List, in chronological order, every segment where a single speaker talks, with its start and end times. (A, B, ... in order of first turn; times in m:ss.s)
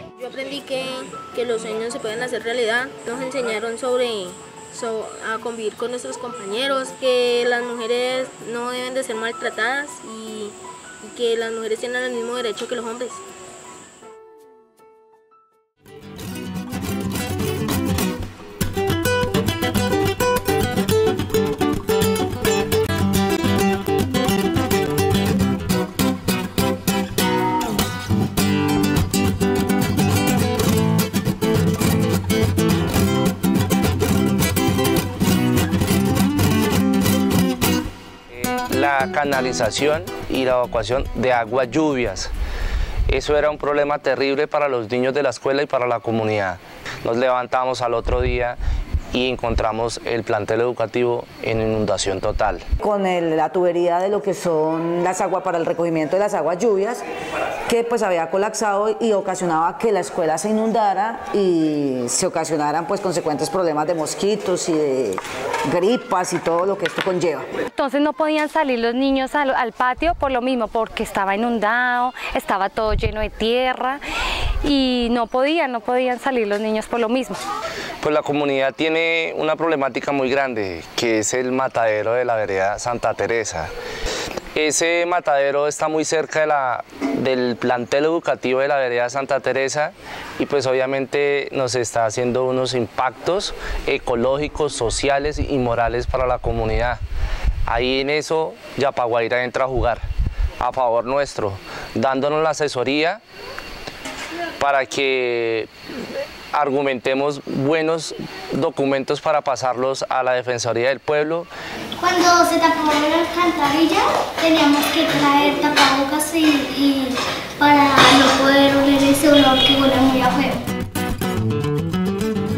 0:00.2-0:13.2 A
0:38.3-0:42.3 B
0:43.1-0:48.6 B
0:49.1-0:52.6 B
0:52.8-0:57.0 C
0:57.7-1:07.5 C
1:07.7-1:14.0 D
1:14.6-1:17.4 D
1:18.0-1:23.7 B
1:24.5-1:37.0 B
1:37.7-1:40.0 B
1:40.6-1:43.2 B
1:44.6-1:45.7 B
1:46.5-1:51.5 B
1:52.0-2:00.6 E